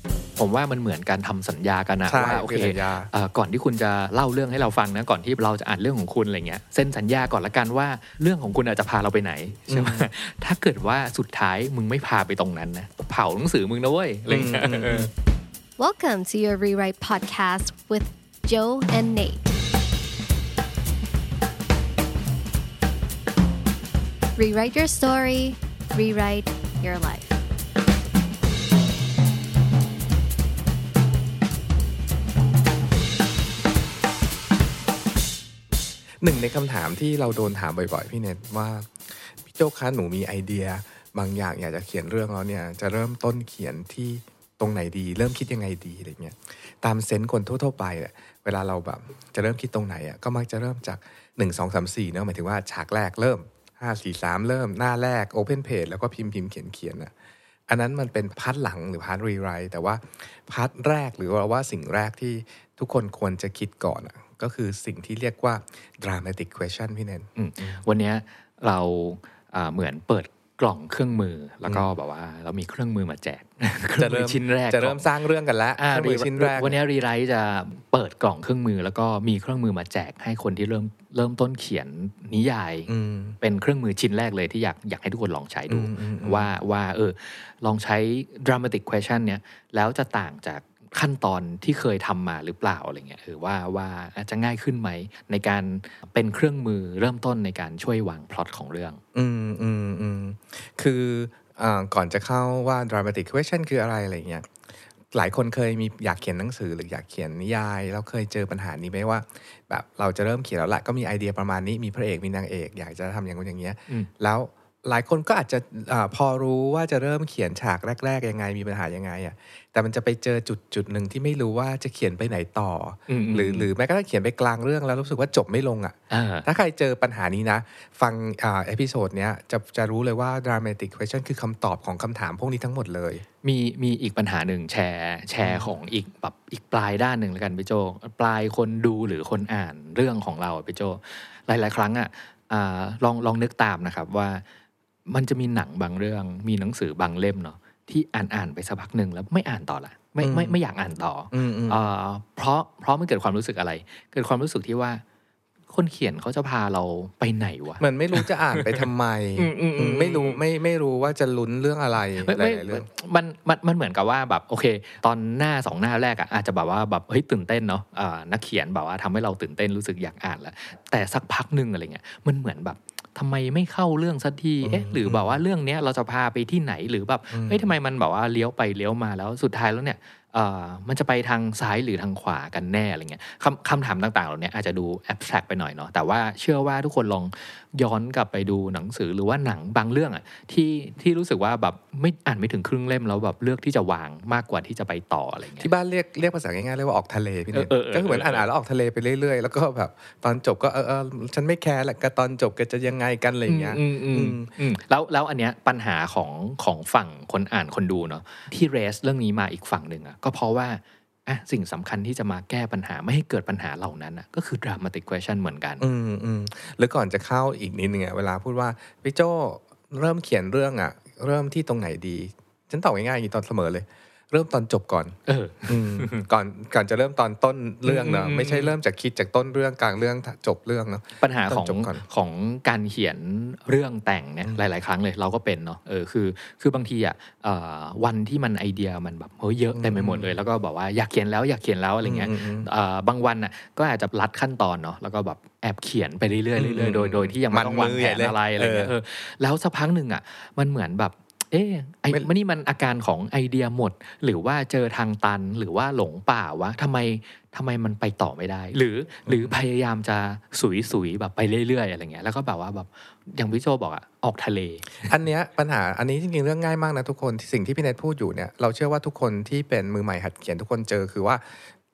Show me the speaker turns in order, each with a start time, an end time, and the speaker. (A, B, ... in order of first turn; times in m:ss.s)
0:00.4-0:15.1 A
0:02.1-0:03.1 B
0:09.7-0:10.1 B
0:14.3-0:15.1 B
0:15.8-0:19.4 C
0:24.4-0:27.4 C
0:36.2-0:57.1 B
0:57.7-1:07.8 B
1:07.4-1:15.1 A
1:14.0-1:16.8 B
1:15.8-1:22.9 A
1:22.9-1:23.4 B
1:23.4-1:39.0 A
1:25.7-1:26.5 B
1:39.1-1:44.5 B
1:45.1-2:13.2 B
2:03.1-2:03.7 A
2:06.1-2:06.5 A
2:13.4-2:24.4 A
2:15.4-2:15.8 B
2:25.1-2:35.0 A
2:30.2-2:30.6 B
2:31.3-2:31.8 B
2:35.7-2:40.4 A
2:37.8-2:42.9 B
2:42.2-3:15.7 A
2:54.6-2:55.4 B
2:57.3-2:57.7 B
3:15.6-3:24.5 B
3:17.5-3:18.5 A
3:23.5-3:35.8 A
3:35.8-3:45.2 B
3:45.3-3:46.2 A
3:45.7-3:52.0 B
3:47.8-3:48.8 A
3:51.2-4:25.1 A
3:59.7-4:00.3 B
4:02.0-4:02.7 B
4:06.6-4:08.9 B
4:19.2-4:19.5 B
4:25.0-4:31.6 B